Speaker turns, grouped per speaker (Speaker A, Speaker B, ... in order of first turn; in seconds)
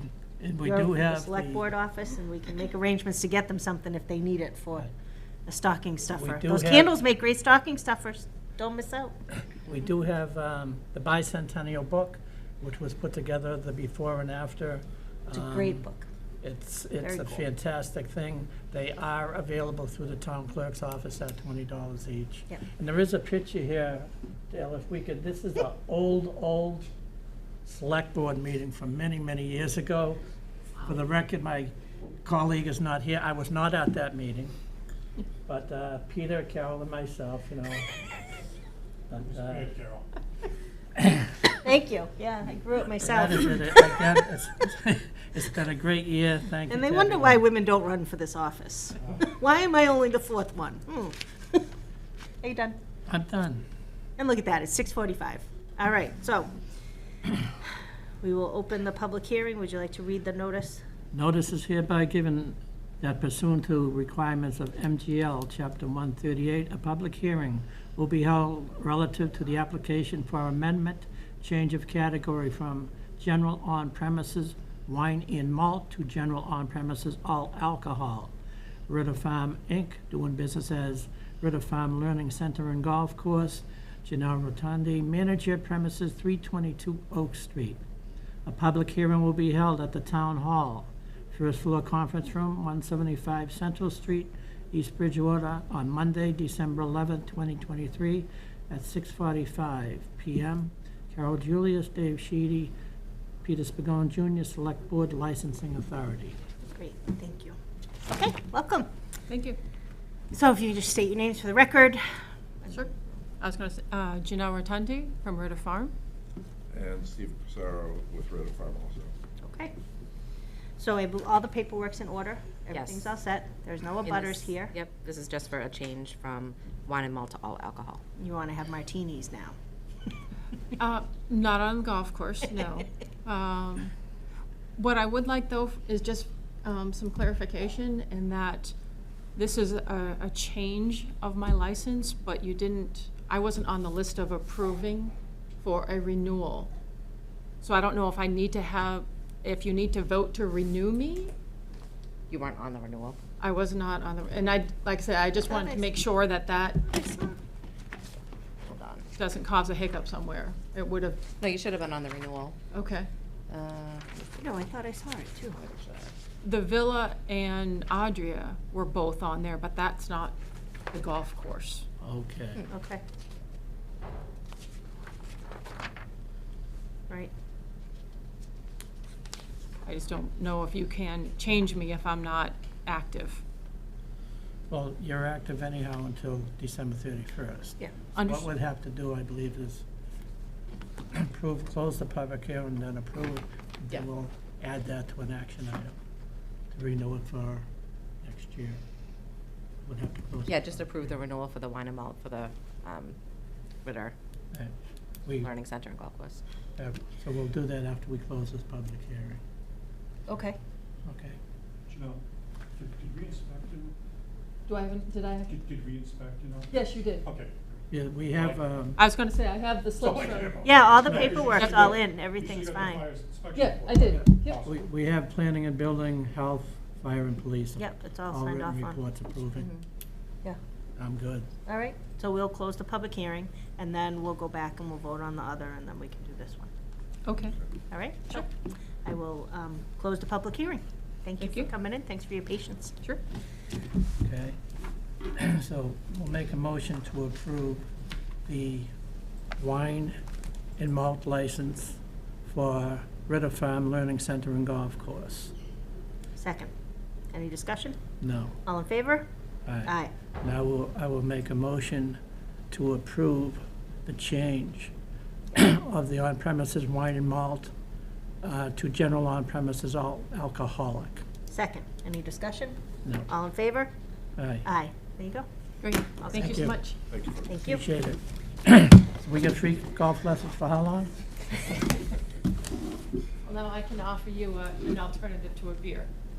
Speaker A: 0.4-1.6, 6.2-6.9, 9.7-15.8, 16.4-26.9, 27.6-30.2, 30.8-31.7, 32.2-34.5, 35.5-37.9, 39.1-39.7, 41.0-41.3, 43.0-47.4, 53.1-53.6, 61.1-78.3, 78.9-87.8, 88.5-102.7, 103.4-106.4, 172.0-172.6, 184.7-189.8, 191.1-195.9, 196.7-197.7, 198.2-198.8, 199.8-201.1, 205.2-205.5, 206.8-209.4, 211.1-211.3, 217.9-219.0, 224.1-229.7, 231.0-231.5, 244.2-244.6, 245.3-247.9, 248.4-248.9, 249.6-250.2, 250.8-255.5, 258.2-258.6, 259.6-262.2, 262.7-264.9, 265.5-267.7, 268.4-271.2, 274.4-274.6, 276.3-276.8, 277.6-281.1
Speaker B: 0.6-4.9, 5.5-9.1, 15.3-16.1, 17.0-17.4, 41.6-44.2, 46.7-51.7, 52.4-52.8, 54.2-56.5, 58.2-60.8, 106.7-107.5, 108.1-108.9, 110.3-112.0, 112.6-112.9, 119.4-119.7, 120.8-124.7, 128.2-129.6, 155.4-155.9, 156.8-157.4, 164.4-165.6, 172.7-173.0, 210.3-210.6, 220.6-223.0, 227.8-229.0, 231.7-236.7, 237.9-238.5, 239.0-242.9, 256.4-256.7, 257.3-258.0, 258.6-259.3, 259.8-260.1, 271.5-272.8, 273.3-273.9, 274.6-275.5, 276.2-276.5, 277.4-277.8
Speaker C: 39.2-40.1, 211.9-212.2, 212.7-213.9, 215.5-217.5, 218.3-218.6, 220.0-224.8
Speaker D: 109.3-109.6, 112.7-115.9, 130.8-133.9, 134.8-138.7, 139.3-146.7, 147.6-151.3, 153.4-156.8, 159.2-161.3, 162.7-163.1, 166.4-170.3, 170.9-171.8, 179.8-183.4, 188.1-188.5, 214.7-215.5, 216.7-217.2, 219.0-220.7, 221.5-221.9, 223.5-224.6, 237.2-237.6, 241.4-241.7, 275.8-277.0, 283.4-286.1
Speaker E: 116.7-119.1, 277.1-277.5
Speaker F: 122.7-123.1, 124.0-128.0, 152.3-153.2, 158.7-159.0, 161.4-162.6, 163.5-164.4, 165.5-166.1, 200.5-203.2, 203.8-204.1, 205.4-206.4